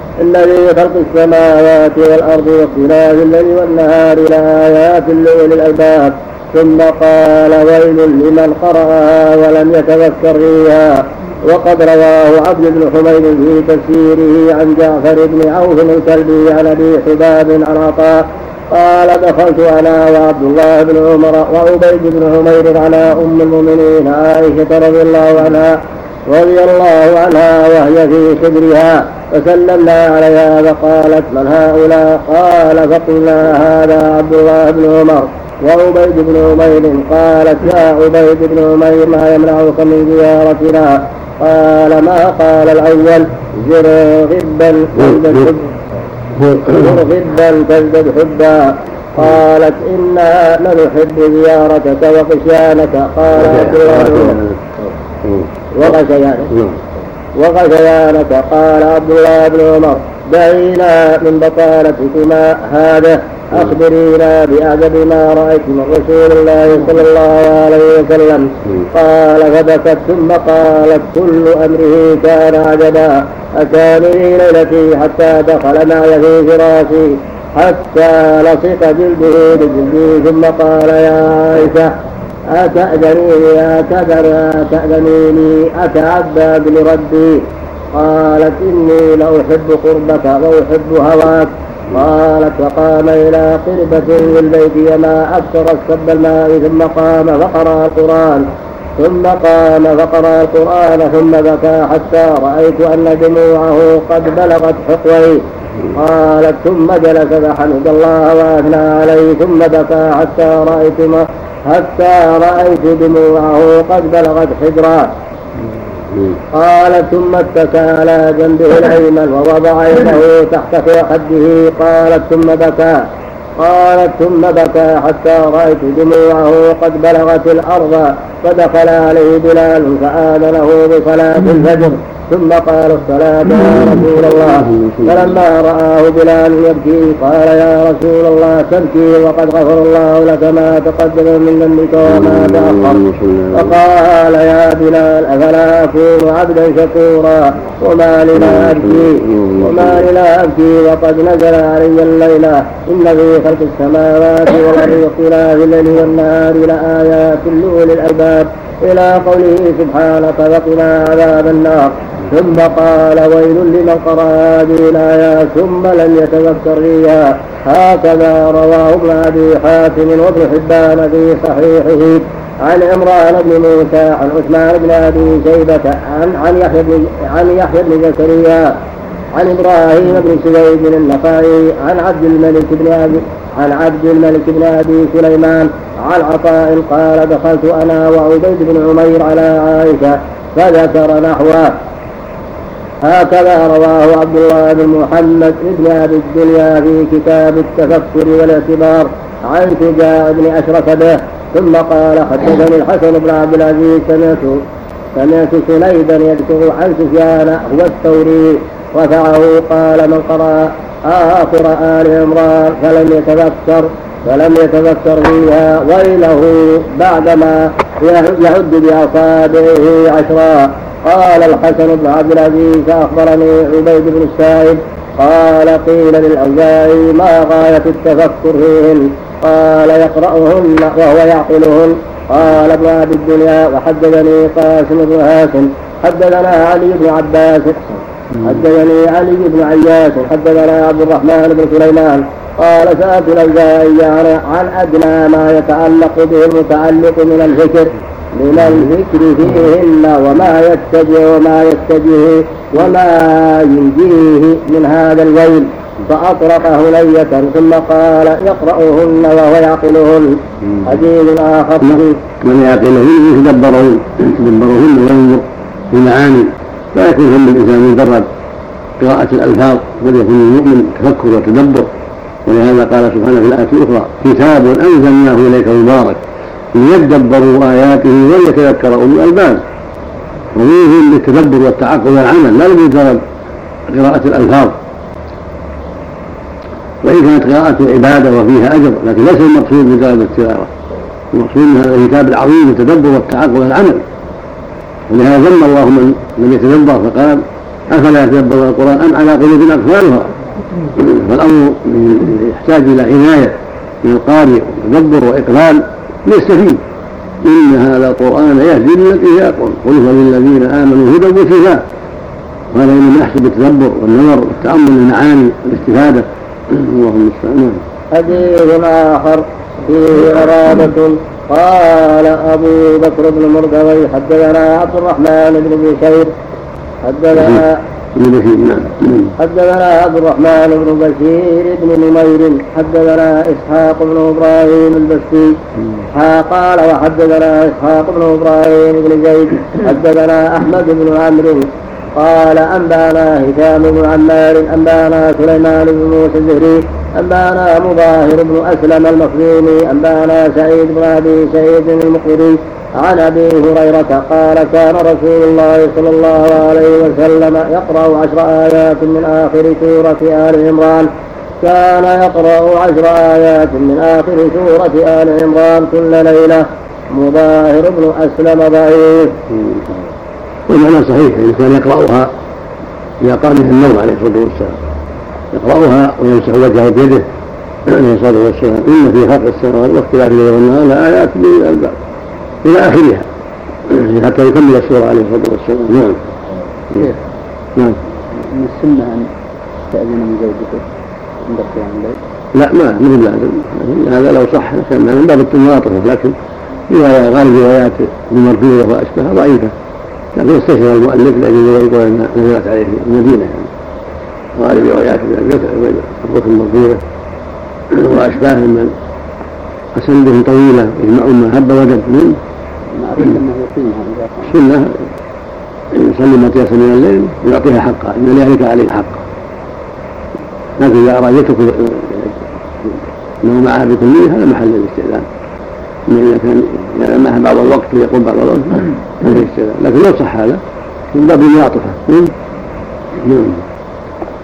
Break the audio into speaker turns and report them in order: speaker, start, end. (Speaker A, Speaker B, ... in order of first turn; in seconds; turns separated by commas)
Speaker A: 0.2-25.8, Speaker A: 26.3-45.7, Speaker B: 45.0-45.4, Speaker B: 46.4-46.9, Speaker A: 46.7-54.4, Speaker B: 53.3-54.6, Speaker A: 55.8-56.5, Speaker B: 56.5-56.8, Speaker A: 57.4-81.9, Speaker A: 82.5-87.4, Speaker A: 87.9-98.5, Speaker A: 99.0-105.4, Speaker A: 105.9-115.1, Speaker A: 116.5-123.0, Speaker A: 123.6-143.0, Speaker B: 133.8-135.4, Speaker B: 142.1-143.8, Speaker A: 143.5-178.7, Speaker B: 148.3-150.0, Speaker A: 179.3-191.7, Speaker A: 193.0-204.6, Speaker A: 205.2-260.3, Speaker A: 260.8-262.2, Speaker B: 262.4-268.3, Speaker B: 269.0-271.9, Speaker B: 272.4-276.2, Speaker B: 276.8-279.6, Speaker B: 280.5-283.2, Speaker B: 283.9-284.8, Speaker B: 287.0-290.7, Speaker B: 291.3-294.0, Speaker B: 295.1-300.3, Speaker B: 300.9-306.8, Speaker B: 307.4-311.8, Speaker B: 312.7-317.8, Speaker A: 318.1-326.3, Speaker A: 327.0-327.8, Speaker B: 327.3-327.6, Speaker B: 328.1-329.3, Speaker A: 329.4-335.5, Speaker A: 336.1-361.1, Speaker A: 361.6-369.3, Speaker B: 369.5-369.8, Speaker B: 370.7-372.3, Speaker B: 373.2-374.8, Speaker B: 375.5-377.2, Speaker B: 377.9-382.0, Speaker B: 382.6-383.3, Speaker B: 383.9-386.2, Speaker C: 388.3-389.3, Speaker C: 389.9-390.9, Speaker C: 391.4-392.2, Speaker B: 392.5-396.4, Speaker B: 396.9-399.7, Speaker B: 400.3-403.7, Speaker B: 404.6-407.0, Speaker B: 407.9-408.9, Speaker B: 409.9-412.4, Speaker C: 413.0-414.5, Speaker B: 414.5-415.0, Speaker B: 415.9-419.2, Speaker B: 420.8-425.2, Speaker B: 426.1-430.6, Speaker B: 431.1-432.3, Speaker B: 433.2-433.6